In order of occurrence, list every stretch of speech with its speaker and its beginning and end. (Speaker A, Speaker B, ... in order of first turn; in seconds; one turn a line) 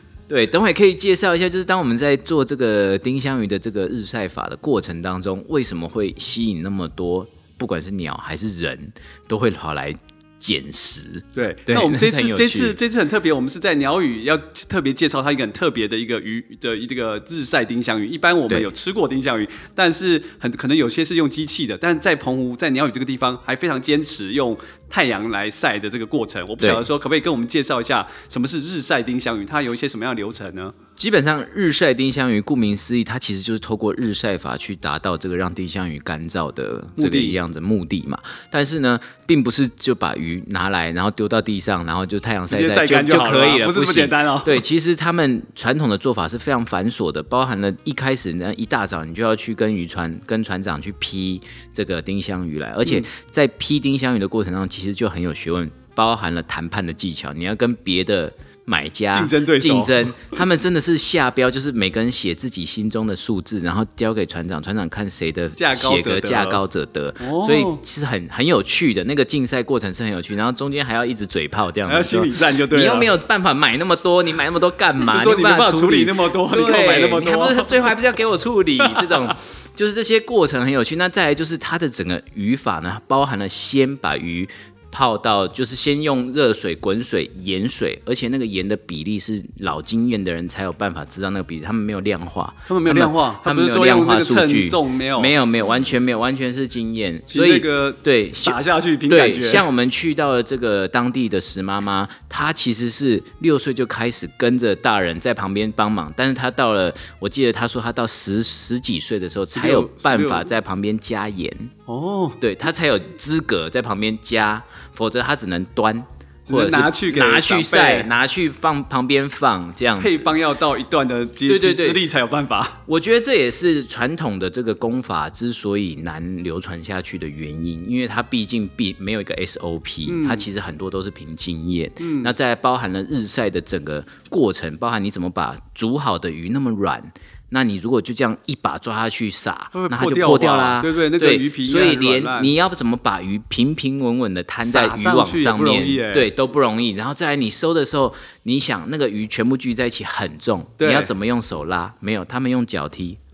Speaker A: 0.3-12.8
Speaker B: 11.3-30.7
Speaker A: 26.6-26.9
Speaker A: 31.0-111.7
Speaker B: 37.0-37.4
Speaker B: 42.5-44.6
Speaker B: 59.1-60.2
Speaker B: 65.6-66.6
Speaker B: 67.2-67.8
Speaker B: 71.9-73.1
Speaker B: 75.0-77.8
Speaker B: 92.7-95.3
Speaker B: 97.3-99.7
Speaker B: 109.5-110.5
Speaker B: 111.9-112.4
Speaker A: 112.4-120.3
Speaker B: 116.5-118.1
Speaker B: 120.0-122.8
Speaker A: 121.5-122.0
Speaker A: 122.9-153.2
Speaker B: 130.1-130.5
Speaker B: 132.0-132.3
Speaker B: 139.7-142.5
Speaker B: 144.6-146.3
Speaker B: 150.8-151.1